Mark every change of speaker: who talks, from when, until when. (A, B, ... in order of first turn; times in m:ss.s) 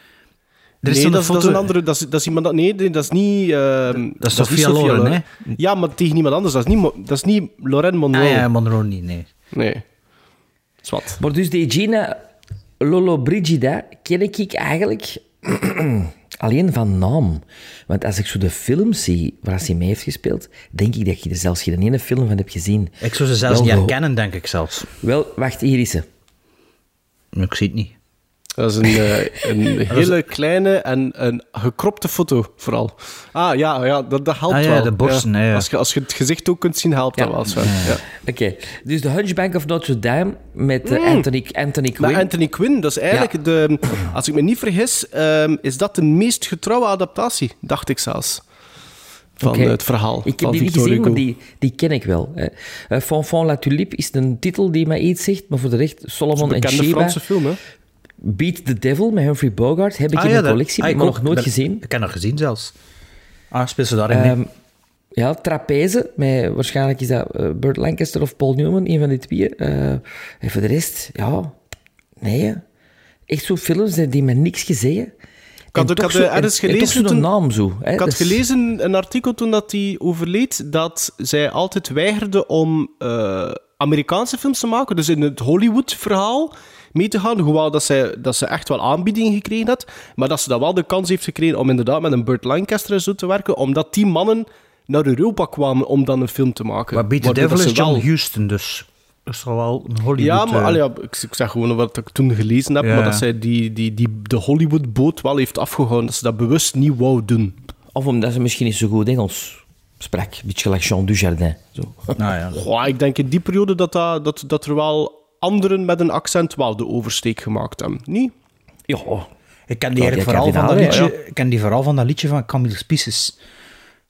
0:00.8-0:01.6 A
0:00.9-0:08.5 B
0:04.2-0:05.6 A
0:08.1-0:09.3 A
0:09.5-0:09.8 B
0:10.8-0:11.2 B
0:11.2-0:12.2 C
0:12.8-0:24.0 C
0:23.0-0:24.9 A
0:25.0-0:26.1 C
0:27.3-0:28.0 A
0:28.6-0:38.0 B
0:29.9-0:30.2 A
0:34.5-0:35.7 A
0:37.2-0:42.3 C
0:37.6-0:37.9 A
0:40.8-0:41.3 B
0:42.0-0:48.4 B
0:49.4-0:51.2 B
0:49.4-0:57.2 C
0:56.4-0:57.6 B
0:58.2-1:01.8 C
1:00.1-1:02.7 A
1:03.5-1:04.4 A
1:04.1-1:04.5 C
1:05.2-1:11.6 C
1:12.2-1:12.6 C
1:13.3-1:15.1 C
1:15.7-1:18.4 C
1:15.8-1:17.3 B
1:18.0-1:38.1 B
1:36.9-1:40.8 A
1:40.2-1:47.6 B
1:42.8-1:43.2 A
1:47.9-1:52.2 C
1:52.2-1:52.6 A
1:52.5-1:58.3 B
1:58.9-1:59.3 C
1:59.7-2:03.4 A
2:00.0-2:01.0 C
2:00.8-2:01.1 B